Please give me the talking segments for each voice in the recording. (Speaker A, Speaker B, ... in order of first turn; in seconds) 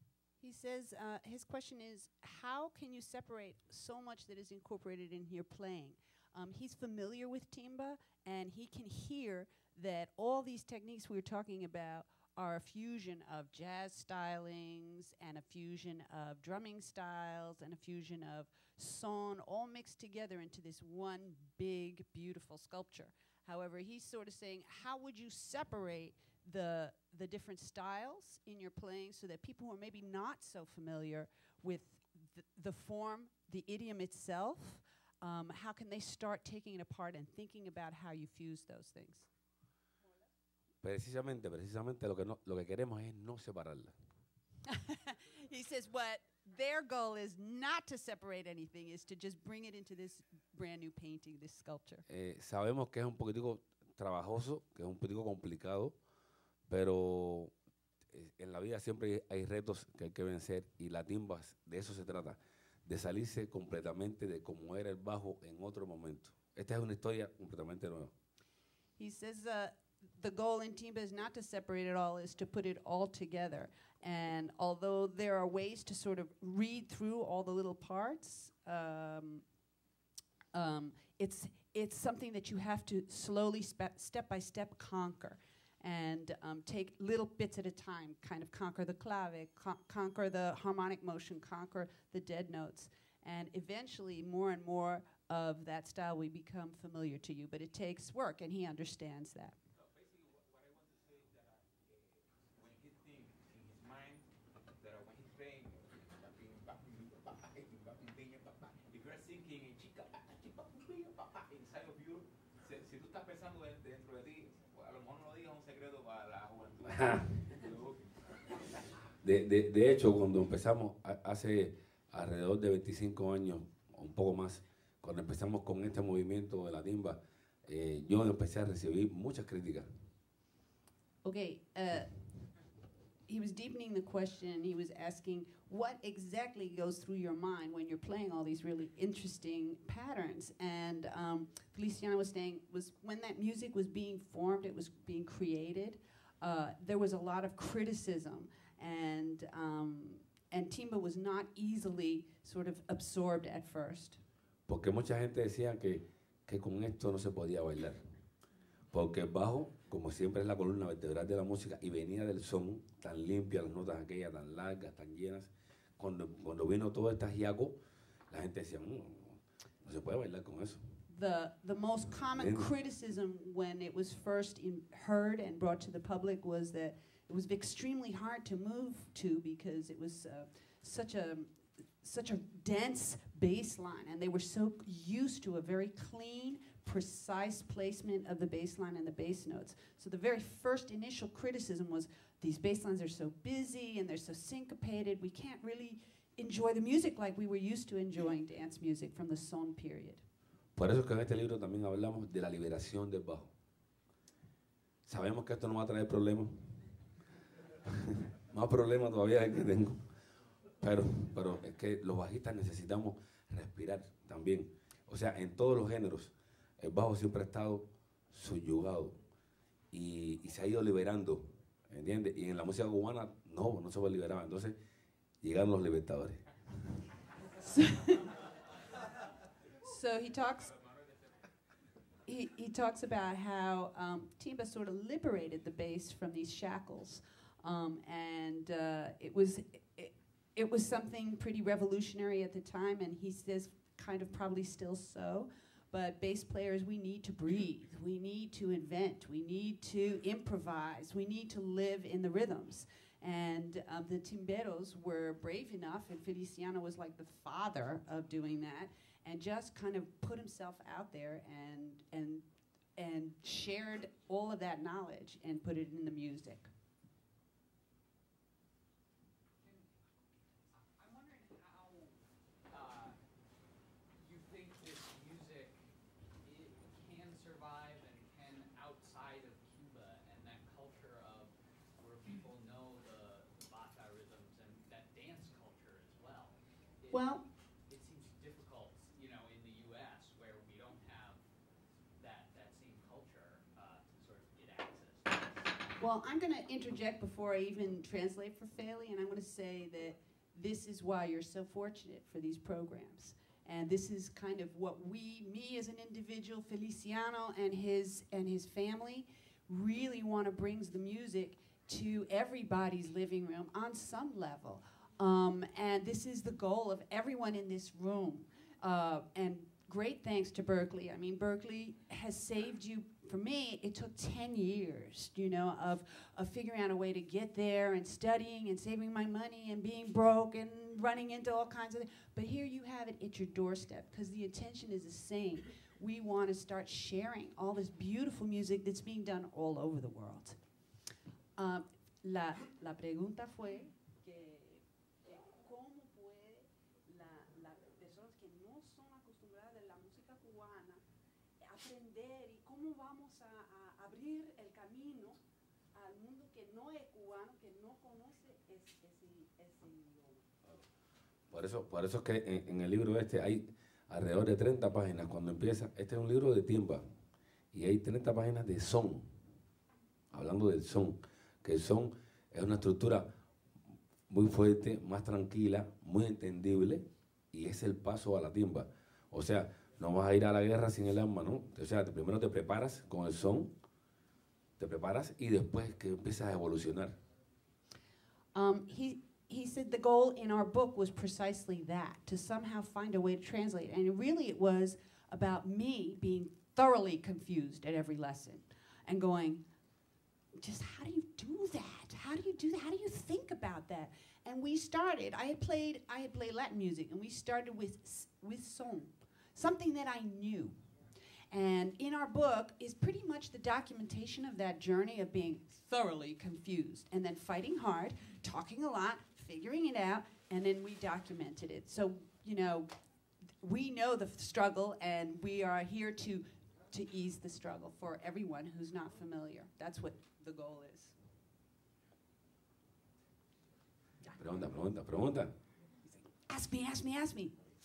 Speaker A: 0.4-39.3, 44.7-52.0, 69.0-79.4, 80.5-99.6, 131.2-132.1, 133.3-154.2, 171.1-200.2, 227.6-228.3, 229.8-230.7, 232.3-262.4, 263.0-266.7, 287.1-287.4, 296.0-340.6, 341.6-351.0, 351.6-355.4, 355.9-360.4, 388.6-399.6, 400.6-410.8, 411.5-422.9, 423.6-431.1, 436.5-437.6
Speaker B: 40.8-43.9, 52.1-56.0, 56.7-57.5, 58.1-68.1, 116.8-117.4, 119.2-129.9, 154.7-158.0, 158.9-167.8, 168.3-170.8, 172.3-172.7, 200.8-203.5, 205.1-206.8, 208.1-210.1, 210.8-219.2, 219.9-224.7, 225.4-226.4, 361.5-367.0, 367.7-369.3, 370.3-373.3, 374.3-383.7, 384.8-387.1, 434.4-435.5
Speaker C: 99.7-104.2, 104.8-118.5, 230.3-231.5
Speaker D: 269.6-273.2, 274.2-275.8, 276.4-291.4, 292.2-295.7